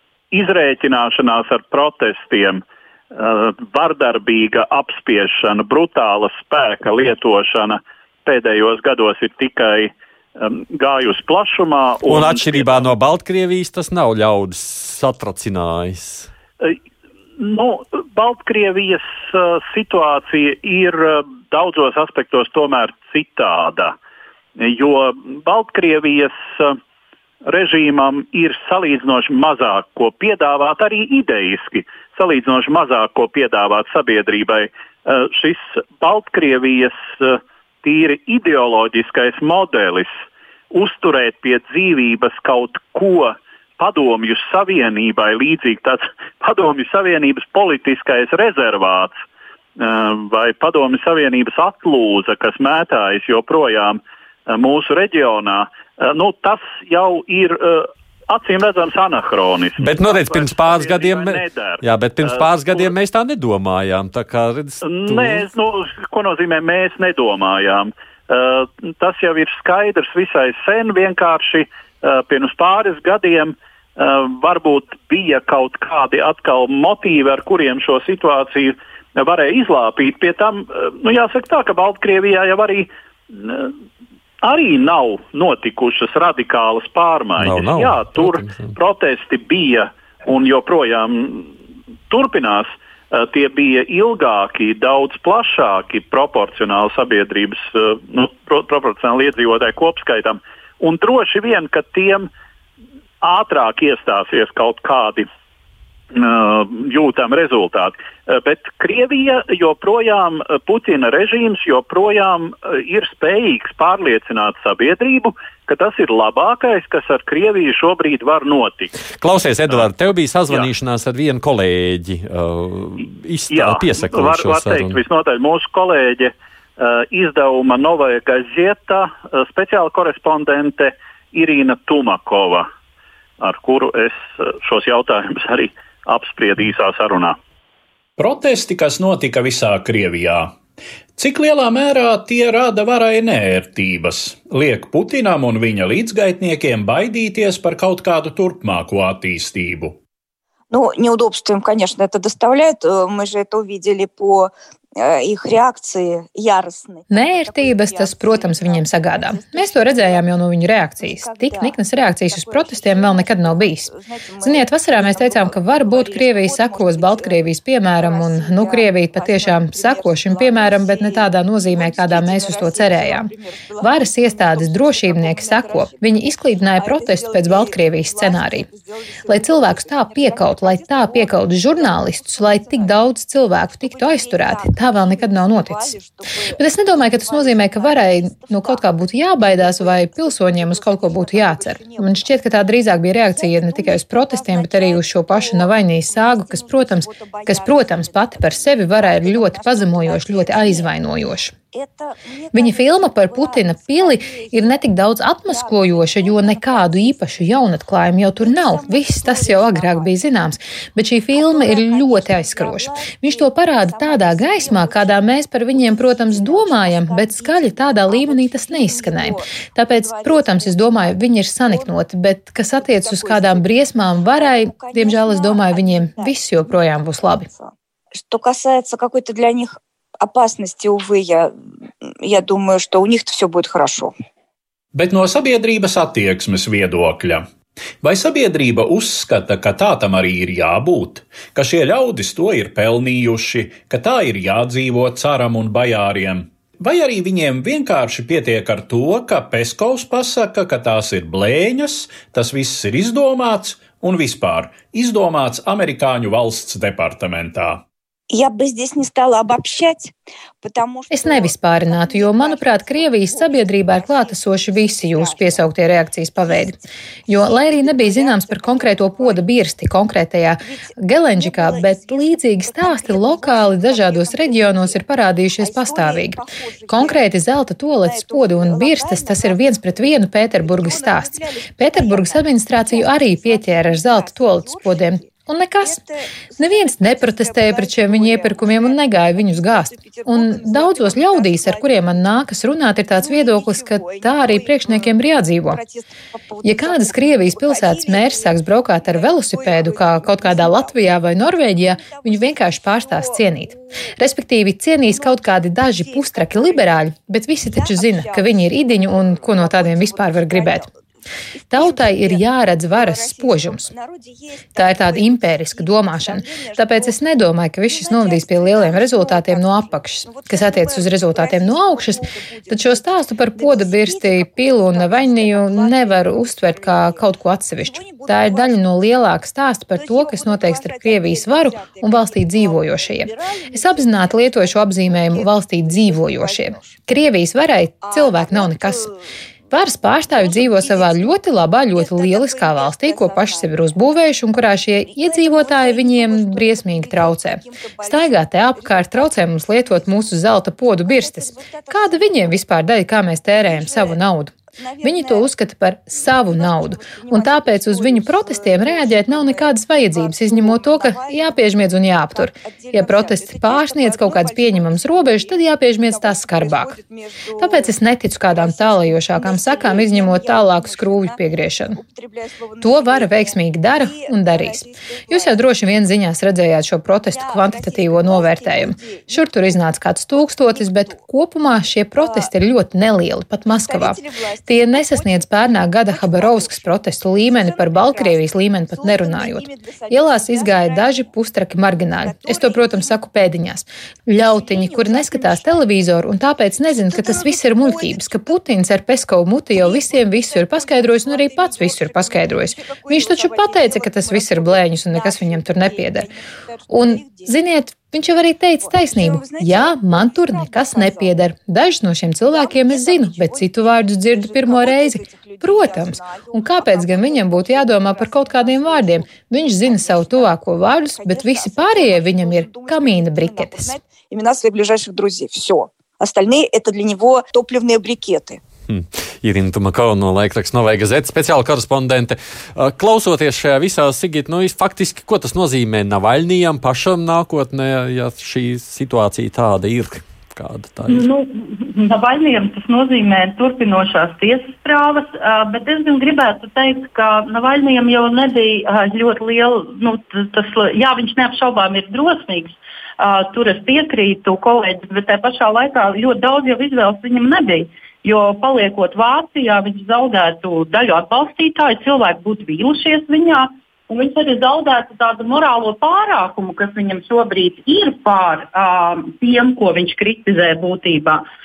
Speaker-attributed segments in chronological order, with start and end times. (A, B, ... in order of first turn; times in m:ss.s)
0:00.3-0:02.6 A
0:03.1-0:12.9 A
0:12.0-0:16.3 B
0:17.4-0:24.0 A
0:24.6-0:26.8 A
0:27.4-0:40.1 A
0:40.7-0:49.1 A
0:49.8-1:02.9 A
0:59.8-1:05.5 B
1:04.8-1:23.7 A
1:24.4-1:31.5 A
1:27.4-1:28.8 B
1:32.1-1:42.3 A
1:43.2-1:45.3 A
1:46.1-1:59.0 A
1:59.2-2:05.0 B
2:03.5-2:12.7 A
2:13.4-2:17.4 A
2:18.2-2:20.6 C
2:21.2-2:30.0 C
2:30.7-2:40.3 D
2:37.1-2:43.9 E
2:41.0-3:03.0 D
2:44.4-2:53.3 E
2:53.8-2:58.7 E
2:59.3-3:06.0 E
3:03.8-3:12.6 D
3:06.6-3:21.6 E
3:13.2-3:21.0 D
3:21.7-3:24.9 D
3:22.5-3:47.5 E
3:25.4-3:27.7 D
3:28.3-3:30.2 D
3:31.3-3:42.0 D
3:42.7-3:46.8 D
3:47.5-3:54.1 D
3:54.9-3:57.5 C
3:58.0-4:17.8 C
4:18.3-4:25.7 D
4:21.1-4:46.0 E
4:26.4-4:29.6 D
4:30.6-4:35.1 D
4:35.6-4:37.4 D
4:38.0-4:52.4 D
4:46.6-4:55.8 E
4:53.2-5:04.1 D
4:56.6-5:10.9 E
5:05.1-5:07.1 D
5:07.6-5:11.0 D
5:11.5-5:17.3 D
5:11.7-5:13.9 E
5:14.8-5:39.1 E
5:17.9-5:29.0 D
5:29.9-5:37.0 D
5:38.0-5:39.3 D
5:39.7-6:07.0 E
5:40.1-5:44.1 D
5:45.0-5:52.7 D
5:53.5-5:55.5 D
5:56.1-6:16.0 D
6:07.6-6:12.0 E
6:12.8-6:46.3 E
6:17.3-6:19.8 D
6:20.3-6:21.3 D
6:22.2-6:22.5 D
6:23.7-6:31.3 D
6:32.1-6:33.2 D
6:34.4-6:35.9 D
6:36.8-6:38.5 D
6:39.7-6:47.6 D
6:46.9-7:04.0 E
6:48.8-6:51.5 D
6:52.5-7:08.6 D
7:08.9-7:21.3 B
7:21.1-7:51.4 F